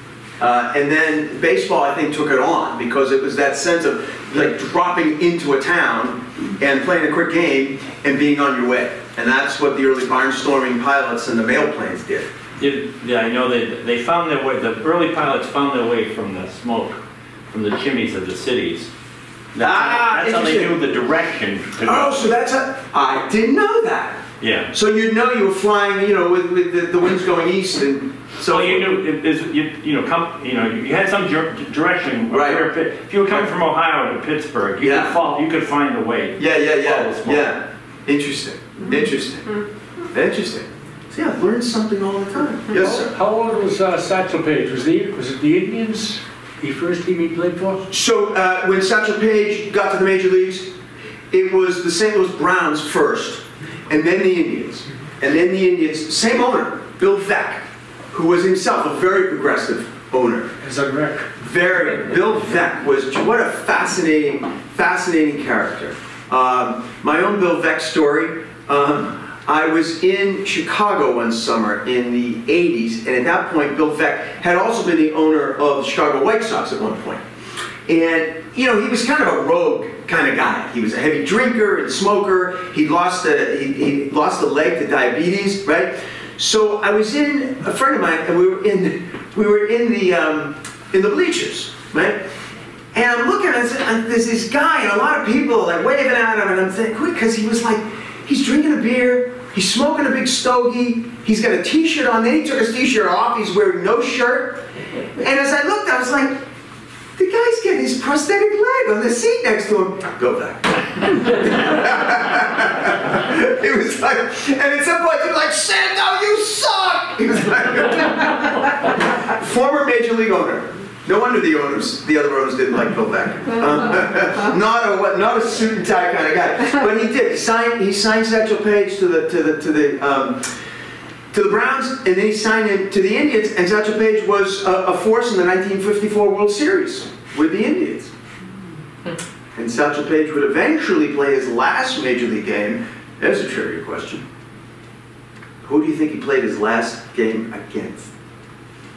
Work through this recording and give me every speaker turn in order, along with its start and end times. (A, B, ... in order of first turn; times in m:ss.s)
0:00.4-0:12.3 A
0:12.6-0:18.9 B
0:19.5-0:22.2 B
0:19.6-0:20.7 A
0:21.8-0:28.9 A
0:24.4-0:24.7 B
0:28.4-0:37.5 B
0:32.3-0:32.6 A
0:34.8-0:35.2 A
0:36.4-0:39.6 A
0:40.1-0:43.1 A
0:42.7-0:47.8 C
0:47.9-0:50.7 A
0:51.3-1:00.5 A
1:00.6-1:01.3 C
1:01.4-1:17.2 A
1:17.9-1:32.2 A
1:32.9-1:44.6 A
1:45.2-1:46.4 A
1:47.2-2:10.5 A
2:11.3-2:18.1 A
2:19.6-2:24.2 A
2:25.6-2:28.1 A